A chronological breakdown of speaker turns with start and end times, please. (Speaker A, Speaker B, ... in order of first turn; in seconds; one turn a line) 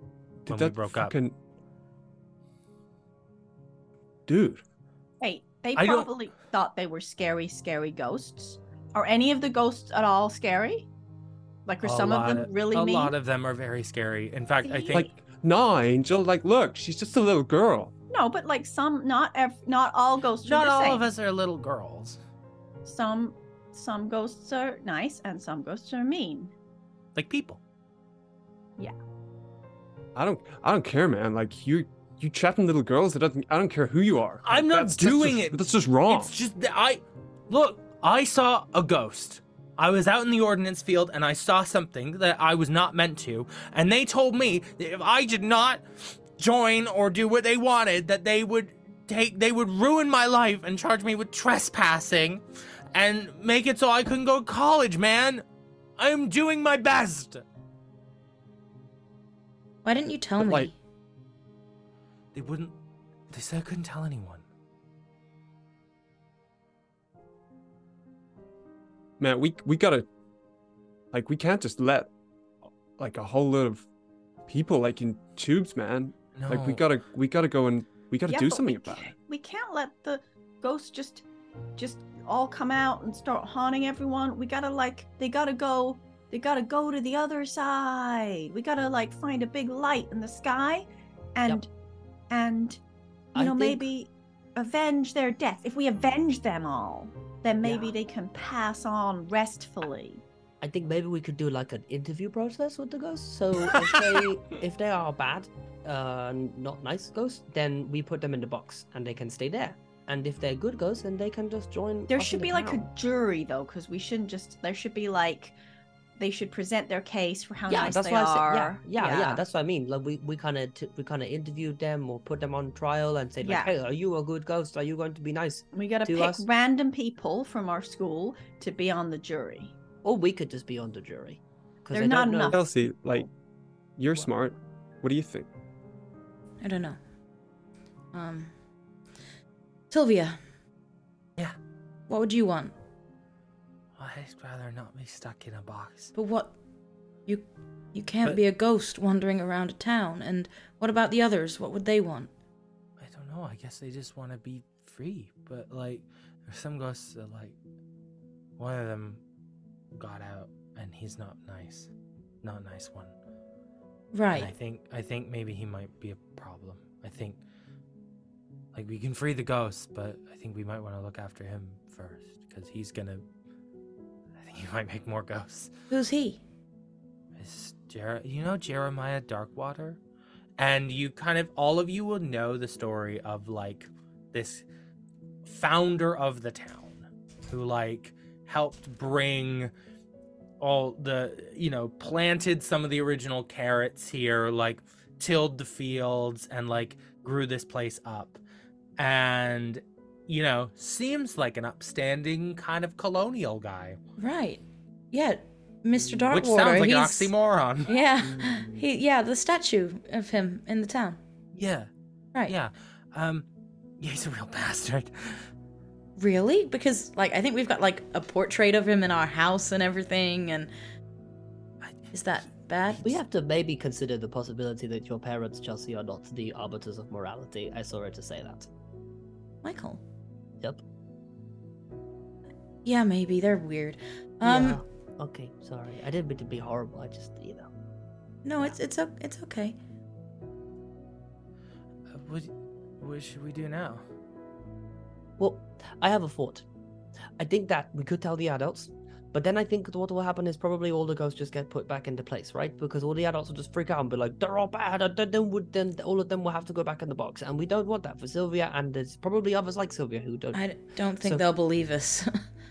Speaker A: 0.5-1.4
Speaker B: 0.5-1.1
Speaker A: 4.3-4.6
Speaker C: 5.2-10.9
Speaker B: 5.8-6.1
Speaker C: 11.7-13.1
Speaker B: 11.8-15.1
Speaker C: 14.6-15.0
Speaker A: 14.9-17.9
Speaker C: 18.1-21.0
Speaker B: 20.4-22.2
Speaker C: 22.9-26.5
Speaker B: 27.1-27.6
Speaker A: 30.1-36.4
Speaker B: 34.5-52.4
Speaker B: 52.9-55.4
Speaker B: 56.0-57.4
Speaker D: 59.9-60.7
Speaker A: 60.4-60.7
Speaker B: 62.3-62.8
Speaker B: 63.3-64.4
Speaker A: 69.2-70.1
Speaker A: 71.1-72.1
Speaker A: 73.0-73.8
Speaker A: 74.5-79.2
Speaker B: 76.3-76.8
Speaker C: 78.3-81.2
Speaker C: 81.8-91.7
Speaker C: 92.3-92.8
Speaker C: 93.3-100.2
Speaker E: 93.3-93.8
Speaker E: 97.6-97.9
Speaker E: 100.6-112.9
Speaker C: 112.1-115.5
Speaker C: 116.2-119.4
Speaker E: 117.7-126.5
Speaker C: 123.4-123.7
Speaker C: 125.7-129.7
Speaker E: 130.0-132.6
Speaker C: 131.9-132.6
Speaker A: 132.5-133.3
Speaker A: 134.0-135.5
Speaker D: 136.6-137.0
Speaker D: 138.1-138.5
Speaker D: 139.9-140.4
Speaker D: 142.1-142.7
Speaker B: 144.0-146.1
Speaker D: 146.2-146.6
Speaker D: 147.3-152.3
Speaker B: 153.0-157.6
Speaker B: 158.6-159.2
Speaker B: 159.9-161.9
Speaker B: 162.4-163.1
Speaker D: 164.1-164.5
Speaker B: 164.3-167.4
Speaker B: 168.7-173.2
Speaker B: 174.4-175.7
Speaker D: 175.9-176.4
Speaker B: 177.4-180.0
Speaker B: 180.6-184.7
Speaker B: 185.4-189.7
Speaker B: 190.6-198.4
Speaker B: 199.0-204.0
Speaker D: 204.2-207.3
Speaker B: 206.3-207.9
Speaker D: 207.9-211.2
Speaker B: 211.5-211.9
Speaker B: 212.5-213.5
Speaker B: 214.0-215.5
Speaker D: 216.2-220.7
Speaker D: 222.1-223.2
Speaker E: 223.0-228.7
Speaker D: 229.6-230.0
Speaker D: 232.8-234.8
Speaker E: 234.4-237.7
Speaker D: 238.4-239.8
Speaker B: 242.1-244.0
Speaker E: 245.4-246.7
Speaker E: 247.4-260.7
Speaker D: 260.5-262.3